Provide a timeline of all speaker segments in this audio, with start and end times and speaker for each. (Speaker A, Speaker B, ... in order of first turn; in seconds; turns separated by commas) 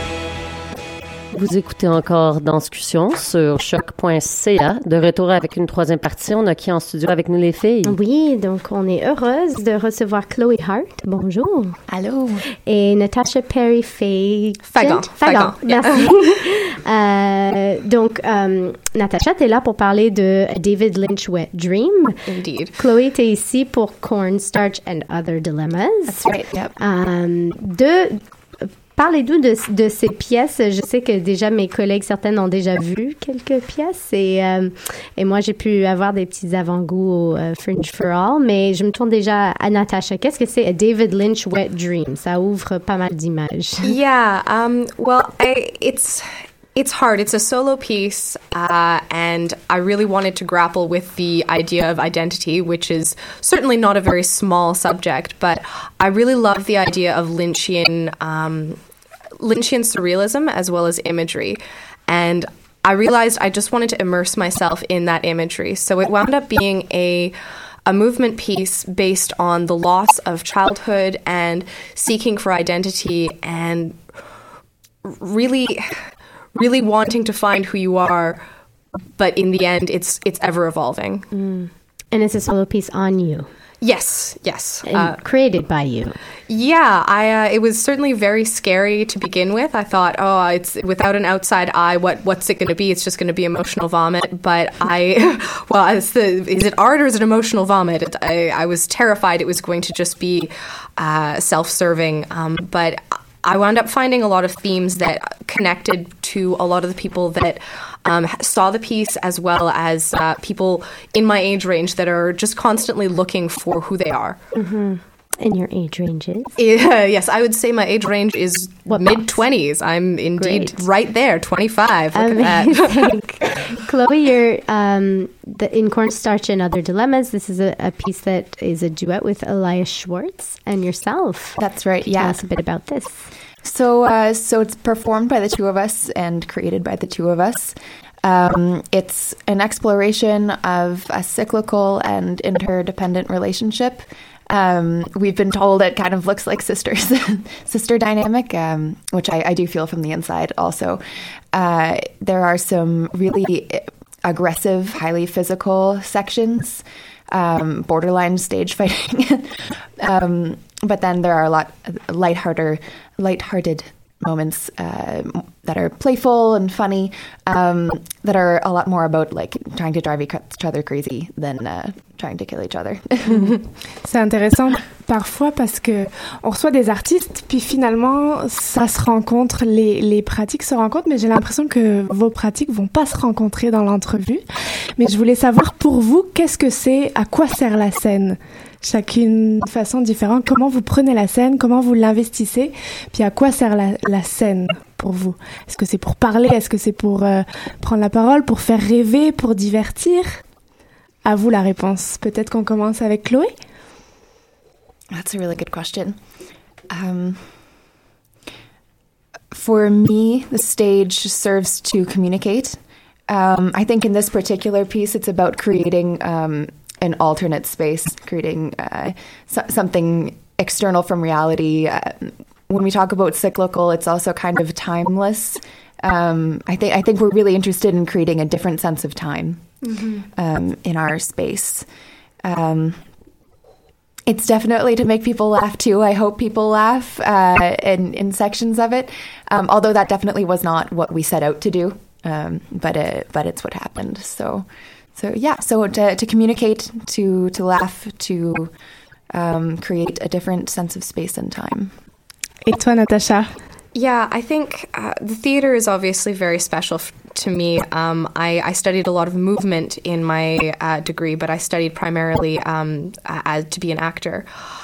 Speaker A: 1.3-8.0, Speaker B: 7.8-11.8, Speaker C: 11.9-12.4, Speaker B: 12.6-22.2, Speaker D: 14.6-16.2, Speaker D: 22.3-22.8, Speaker B: 22.8-43.9, Speaker C: 26.1-26.7, Speaker D: 43.8-58.8, Speaker D: 59.4-67.3, Speaker D: 67.9-74.0, Speaker D: 75.0-78.4, Speaker D: 79.2-81.3, Speaker B: 81.3-83.5, Speaker D: 83.8-85.2, Speaker B: 84.9-86.2, Speaker D: 86.5-114.4, Speaker B: 114.6-116.5, Speaker D: 116.6-123.1, Speaker B: 118.9-119.3, Speaker B: 120.4-120.8, Speaker B: 122.1-133.3, Speaker C: 131.6-132.5, Speaker C: 133.6-173.6, Speaker E: 174.0-184.4, Speaker E: 185.0-200.4, Speaker E: 201.2-203.5, Speaker C: 205.1-206.2, Speaker C: 206.9-207.5, Speaker C: 209.5-212.8, Speaker C: 213.3-231.9, Speaker C: 232.4-233.0, Speaker C: 234.3-248.7, Speaker C: 249.3-251.9, Speaker E: 252.7-253.6, Speaker D: 253.9-264.5